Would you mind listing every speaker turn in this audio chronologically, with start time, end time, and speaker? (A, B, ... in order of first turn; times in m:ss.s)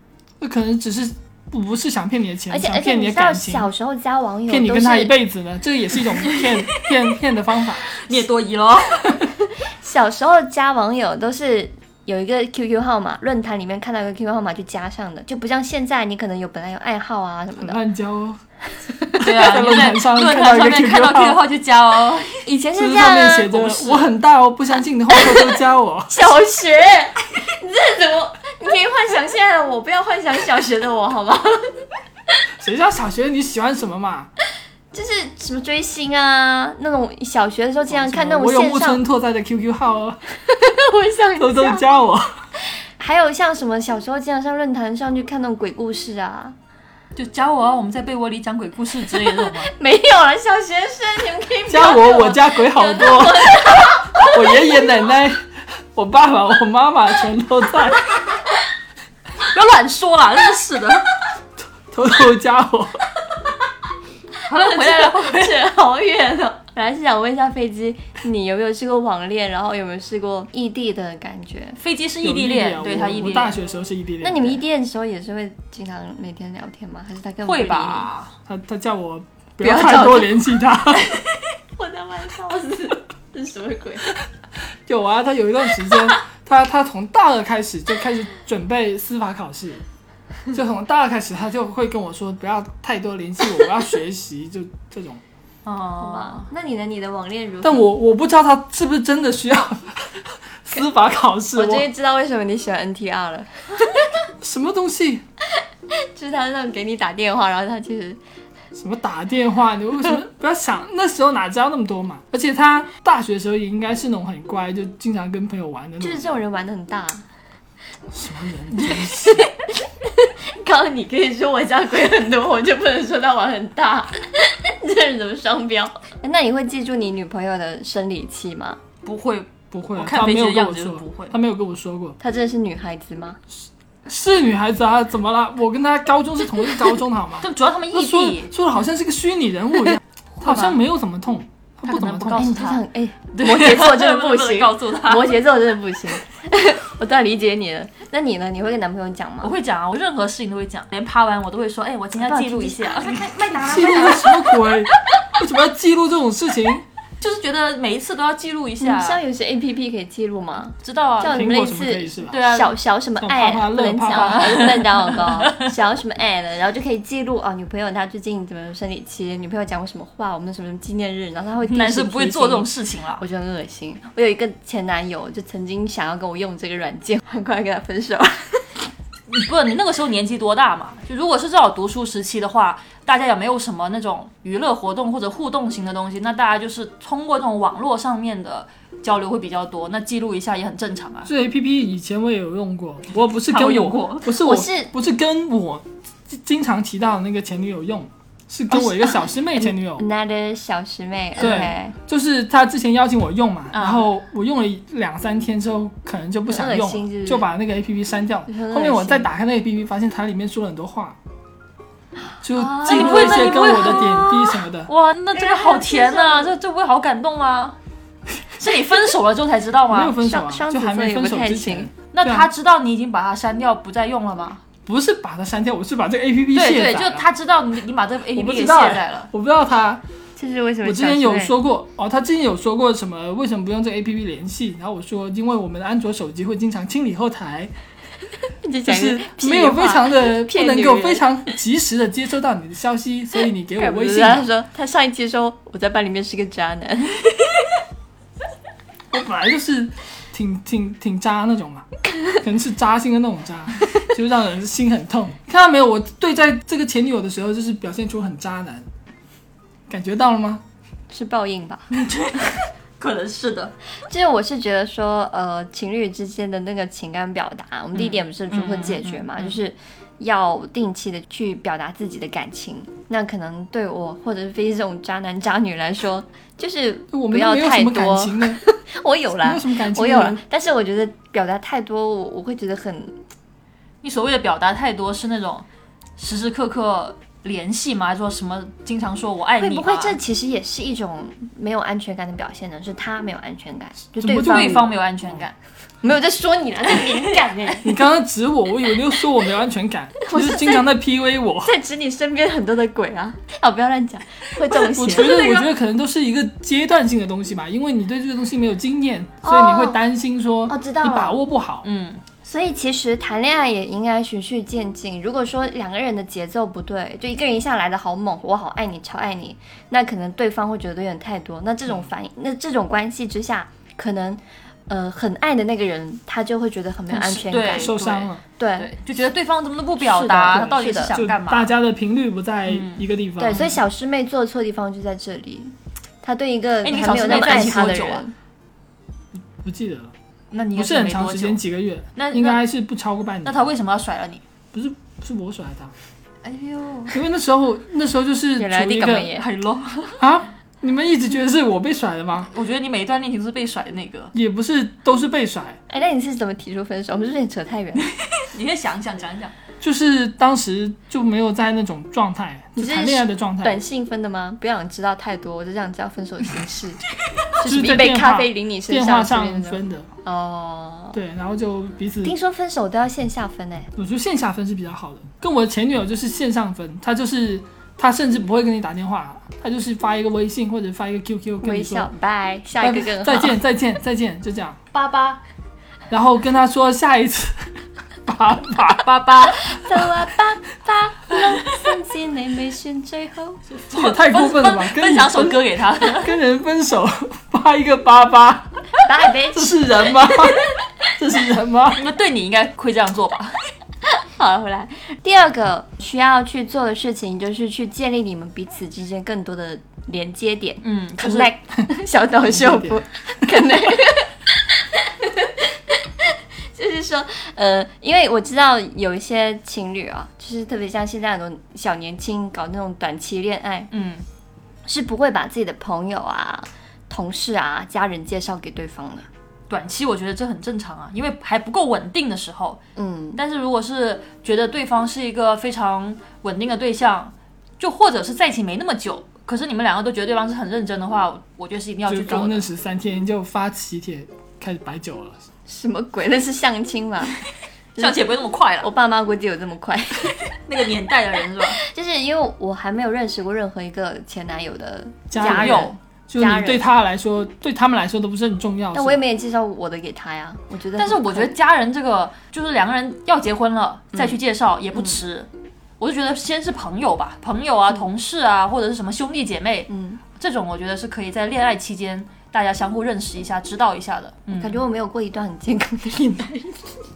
0:00.4-0:03.7 A
0:02.5-0:05.2 B
0:04.5-0:08.0 A
0:07.9-0:09.2 C
0:09.7-0:17.8 B
0:17.6-0:18.4 A
0:19.2-0:21.4 A
0:19.2-0:22.5 C
0:22.5-0:24.1 B
0:22.8-0:26.2 A
0:25.1-0:25.6 B
0:26.1-0:31.8 B
0:32.6-0:34.3 A
0:34.9-0:39.0 B
0:37.9-0:40.2 A
0:40.4-0:41.8 B
0:41.4-0:42.4 A
0:43.0-0:46.6 B
0:47.2-0:49.7 C
0:49.2-0:54.7 B
0:51.7-0:58.2 A
0:59.4-1:01.1 C
1:01.8-1:03.0 A
1:04.5-1:05.6 C
1:04.5-1:11.8 B
1:11.8-1:13.6 C
1:12.2-1:14.6 A
1:14.2-1:18.1 B
1:17.4-1:18.3 C
1:18.5-1:21.2 A
1:19.6-1:20.4 B
1:21.0-1:24.1 B
1:24.9-1:29.8 A
1:30.5-1:35.2 A
1:35.7-1:36.5 C
1:36.0-1:37.9 B
1:37.6-1:41.9 A
1:41.6-1:44.3 B
1:44.4-1:45.2 A
1:45.9-1:48.2 B
1:48.8-1:56.4 A
1:56.0-1:57.2 B
1:58.1-1:59.5 A
1:58.8-2:08.8 B
2:09.0-2:11.3 C
2:09.7-2:12.2 A
2:12.2-2:13.4 B
2:14.1-2:22.6 A
2:17.4-2:18.5 C
2:20.4-2:20.8 C
2:21.8-2:25.3 C
2:22.3-2:29.5 B
2:29.4-2:34.2 C
2:32.2-2:34.6 B
2:33.6-2:36.8 A
2:37.2-2:39.2 C
2:38.8-2:58.8 B
2:40.8-2:41.4 C
2:41.2-2:42.4 A
2:42.3-2:42.8 C
2:43.2-2:45.0 A
2:44.1-2:45.7 C
2:51.6-2:53.2 C
2:59.3-3:11.3 C
3:11.2-3:20.0 A
3:13.5-3:14.3 C
3:14.4-3:14.9 B
3:18.7-3:22.0 B
3:21.4-3:31.2 A
3:23.7-3:24.1 C
3:26.5-3:27.5 B
3:28.5-3:29.3 B
3:32.4-3:34.9 A
3:32.5-3:34.1 B
3:32.8-3:37.8 C
3:35.3-3:36.5 B
3:38.6-3:40.2 C
3:39.9-3:42.5 A
3:40.2-3:41.9 B
3:42.1-3:44.6 C
3:44.9-3:47.3 A
3:46.5-3:49.3 C
3:48.4-3:50.0 A
3:50.4-3:51.5 B
3:50.8-3:57.7 A
3:58.6-4:01.2 B
3:58.9-4:04.5 A
4:03.8-4:07.7 B
4:09.1-4:11.9 A
4:12.4-4:18.9 A
4:19.9-4:20.6 A
4:21.1-4:21.9 B
4:21.9-4:23.7 C
4:24.1-4:43.2 B
4:28.0-4:29.6 C
4:37.1-4:38.6 A
4:39.4-4:40.4 A
4:44.0-4:45.7 C
4:46.2-4:50.2 C
4:49.6-4:54.9 B
4:54.2-4:54.9 A
4:54.3-4:55.6 C
4:56.0-4:58.0 B
4:57.8-5:01.7 A
5:00.2-5:00.9 B
5:01.6-5:05.4 B
5:04.9-5:11.9 A
5:05.1-5:05.7 C
5:09.4-5:10.0 B
5:10.7-5:11.4 B
5:11.8-5:12.2 C
5:12.4-5:28.9 B
5:27.1-5:31.7 C
5:27.7-5:28.4 A
5:30.0-5:31.2 B
5:31.1-5:33.8 A
5:32.7-5:33.0 C
5:33.4-5:38.3 B
5:36.8-5:38.2 C
5:39.4-5:40.1 A
5:40.5-5:41.6 C
5:40.8-5:43.6 A
5:42.2-5:42.6 C
5:43.4-5:44.4 C
5:44.7-5:45.9 A
5:46.5-5:47.1 C
5:47.1-5:49.3 A
5:48.6-5:49.5 B
5:49.3-5:50.2 C
5:50.2-5:52.5 A
5:52.5-5:54.3 C
5:54.3-5:55.8 A
5:55.9-5:58.1 B
5:58.3-5:59.5 C
5:59.8-6:03.8 A
6:02.8-6:07.0 B
6:07.6-6:11.2 B
6:07.6-6:10.1 A
6:11.1-6:12.4 A
6:12.2-6:13.9 B
6:14.0-6:22.1 A
6:21.6-6:23.6 B
6:22.8-6:24.8 A
6:24.9-6:25.4 C
6:26.1-6:27.7 A
6:28.3-6:29.7 A
6:29.0-6:29.7 C
6:29.6-6:33.6 B
6:33.7-6:36.3 C
6:33.9-6:38.7 A
6:39.0-6:40.3 B
6:39.5-6:42.0 A
6:42.0-6:43.6 C
6:44.2-7:03.9 B
6:50.8-6:51.5 C
6:52.5-6:53.0 A
7:03.9-7:04.2 C
7:04.9-7:09.3 B
7:09.7-7:12.8 C
7:13.0-7:13.4 B
7:13.4-7:22.7 C
7:22.1-7:25.4 A
7:25.7-7:27.4 B
7:28.0-7:28.2 B
7:28.0-7:28.9 C
7:28.8-7:30.4 B
7:30.5-7:31.8 C
7:31.8-7:36.8 B
7:35.3-7:39.2 A
7:35.4-7:36.0 C
7:38.9-7:41.5 B
7:41.0-7:45.5 C
7:44.1-7:44.4 B
7:44.9-7:45.2 B
7:46.0-7:54.8 C
7:49.9-7:50.2 B
7:54.5-7:57.0 B